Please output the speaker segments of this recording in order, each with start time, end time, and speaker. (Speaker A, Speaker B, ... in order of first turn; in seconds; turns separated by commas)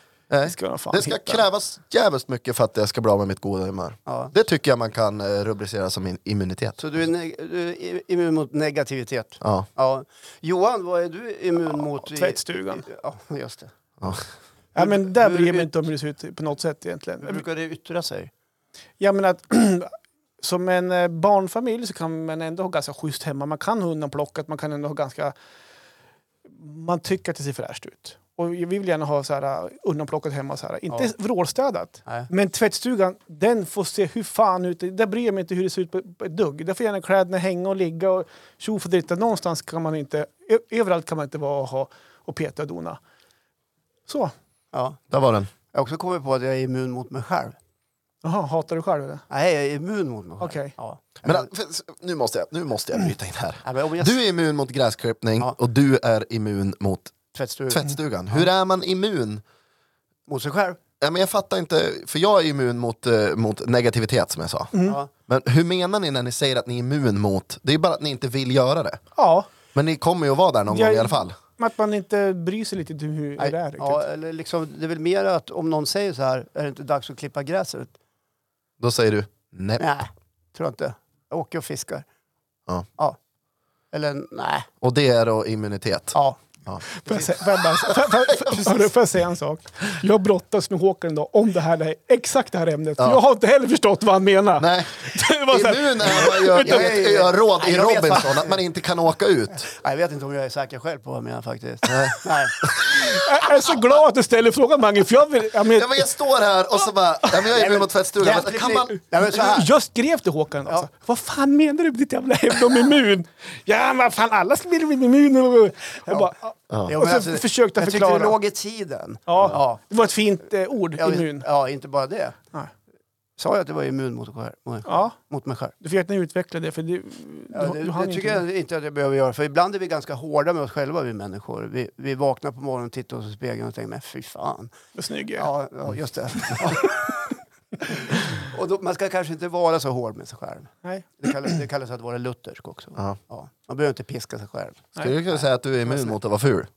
Speaker A: 0.3-6.8, Speaker B: 0.4-1.4, Speaker C: 4.1-4.3, Speaker C: 6.8-13.7, Speaker A: 9.4-9.7, Speaker B: 12.0-12.8, Speaker B: 14.7-17.4, Speaker C: 14.8-15.8, Speaker C: 17.2-18.3, Speaker B: 19.0-25.3, Speaker B: 26.6-43.0, Speaker B: 44.1-44.3, Speaker C: 44.7-45.0, Speaker A: 45.1-45.5, Speaker C: 45.7-47.5, Speaker B: 48.2-49.2, Speaker C: 49.3-51.5, Speaker B: 50.4-50.7, Speaker A: 51.2-57.1, Speaker C: 53.6-54.1, Speaker C: 57.3-58.5, Speaker A: 57.7-59.4, Speaker C: 60.3-60.8, Speaker A: 61.0-64.7, Speaker B: 64.7-65.0, Speaker C: 64.8-65.1, Speaker A: 65.3-69.0, Speaker B: 69.2-69.5, Speaker A: 69.7-71.3, Speaker B: 70.7-74.0, Speaker C: 73.4-77.9, Speaker A: 78.8-79.8, Speaker C: 79.8-82.0, Speaker C: 83.9-84.7, Speaker A: 84.8-86.8, Speaker C: 86.1-86.4, Speaker B: 86.9-97.0, Speaker C: 87.0-87.5, Speaker A: 88.1-88.8, Speaker A: 94.6-99.7, Speaker C: 96.2-98.6, Speaker C: 99.6-102.7, Speaker A: 101.8-102.2, Speaker B: 102.8-106.1, Speaker A: 105.7-108.9, Speaker C: 107.5-109.7, Speaker B: 108.6-118.3, Speaker C: 116.8-119.8, Speaker B: 119.3-121.5, Speaker C: 121.0-122.4, Speaker C: 123.4-125.7, Speaker B: 124.8-125.1, Speaker B: 125.8-128.4, Speaker C: 127.5-134.7, Speaker B: 134.9-135.5, Speaker C: 135.3-137.1, Speaker C: 137.8-146.1, Speaker B: 140.8-141.1, Speaker A: 145.0-146.7